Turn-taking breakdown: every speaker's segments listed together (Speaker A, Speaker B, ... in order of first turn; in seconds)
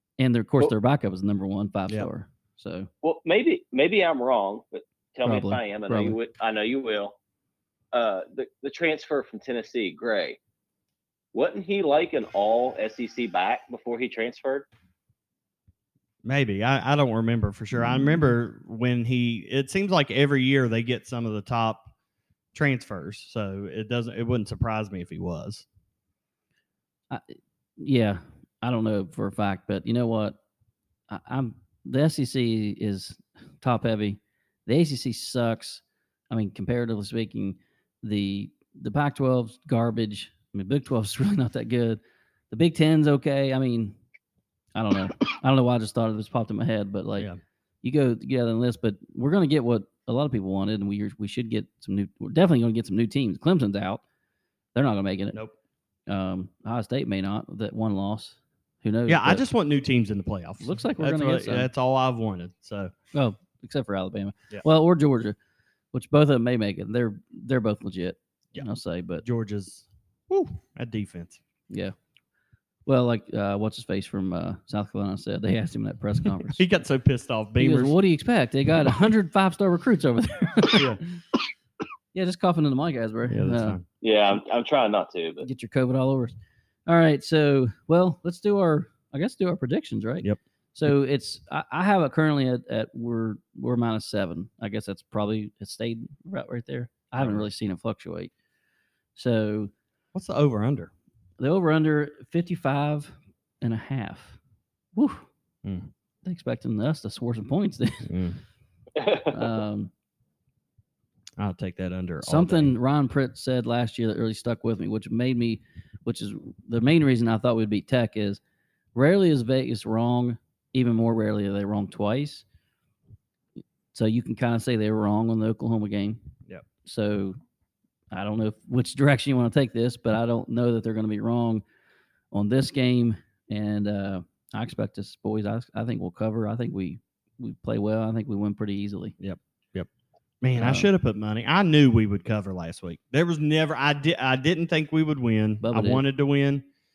Speaker A: 0.2-2.9, 5.2-6.2, 17.8-18.1, 27.1-30.4, 31.1-42.0, 42.5-44.0, 44.7-47.3, 47.8-54.0, 54.7-55.4, 56.1-59.5, 60.6-61.7, 63.1-65.3, 65.9-69.2, 72.8-76.6, 77.6-80.8, 82.1-83.8, 85.4-98.3, 99.2-99.7, 101.4-104.4, 104.9-105.3, 106.2-108.1, 109.3-109.9, 112.2-118.4, 118.9-122.4, 123.9-126.2, 126.8-127.4, 128.1-131.6, 132.3-139.1, 140.6-140.9, 145.6-146.0
Speaker B: 3.0-7.1, 7.9-10.4, 11.3-14.7, 84.0-85.5, 109.0-109.4
Speaker C: 16.2-21.9, 22.5-25.6, 59.1-62.9, 69.2-71.4, 76.5-78.0, 80.7-81.0, 83.3-83.8, 90.2-90.9, 97.2-97.5, 100.1-100.9, 108.0-108.4, 111.4-112.7, 139.2-139.9, 140.4-146.6